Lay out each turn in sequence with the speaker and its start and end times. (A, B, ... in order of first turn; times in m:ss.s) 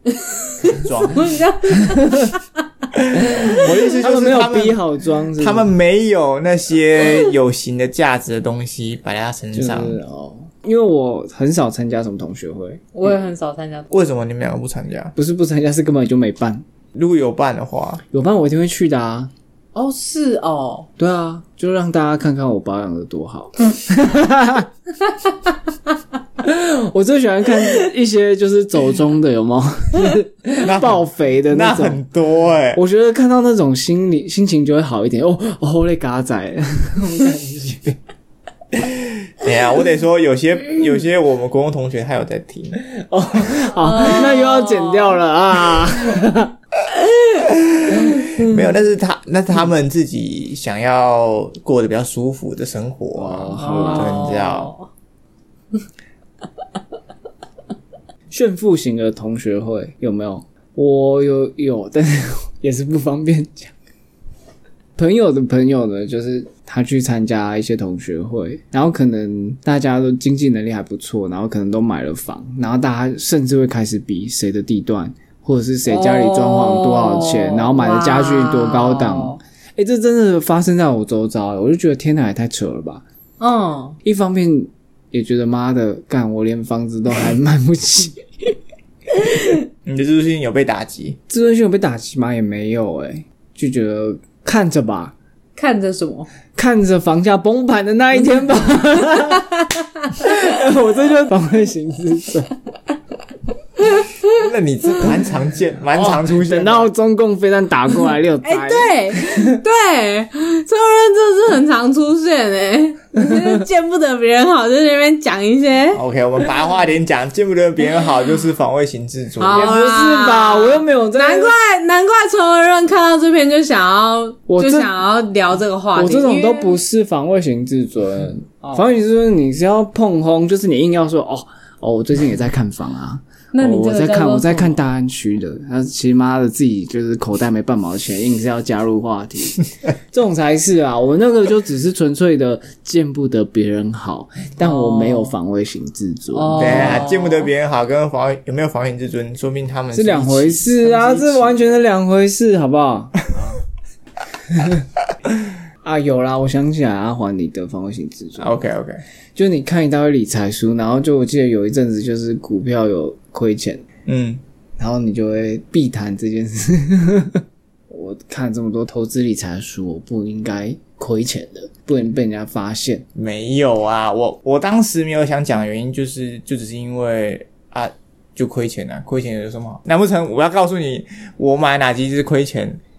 0:00.2-0:02.4 A
0:00.6-0:01.4 B
0:01.8-0:02.3 C
0:02.9-0:04.8 B
0:03.1-0:05.7 C
0:05.4-0:10.0 B
0:09.5-0:13.1 C
0:12.9-0:13.9 A
0:13.9-0:15.1 B
0:15.2-0:16.6 C
0:16.9-0:18.0 B
0:18.1-0:19.3 C
0:19.7-0:20.9 A
0:21.0-0:24.7 C
0:26.4-0:32.0 C
0:30.6-0:32.8 B
0:32.7-0:38.0 C
0:39.4-0:42.8 B
0:42.9-0:46.5 C
0:43.8-0:45.2 A
0:47.4-0:54.7 B
0:53.1-0:54.2 C
0:53.6-0:54.9 A
0:58.3-1:03.7 C
1:05.0-1:23.0 C
1:15.8-1:19.4 A
1:23.4-1:24.0 A
1:24.0-1:28.5 C
1:29.8-1:31.2 B
1:31.3-1:35.1 C
1:35.6-1:36.3 A
1:36.6-1:39.5 C
1:40.2-1:42.5 C
1:44.3-1:46.9 B
1:45.9-1:49.6 C
1:48.4-1:56.0 A
1:55.9-1:59.7 B
1:59.4-2:06.8 A
1:59.5-2:01.5 C
2:04.5-2:04.9 C
2:05.9-2:27.0 C
2:13.5-2:14.8 A
2:24.6-2:25.3 A
2:26.3-2:27.5 A
2:26.6-2:31.6 B
2:29.9-2:33.5 C
2:34.6-2:34.8 C
2:35.8-2:38.6 C
2:38.4-2:39.0 B
2:39.3-2:43.8 C
2:44.0-2:44.4 B
2:44.8-2:53.0 C
2:53.1-3:02.8 B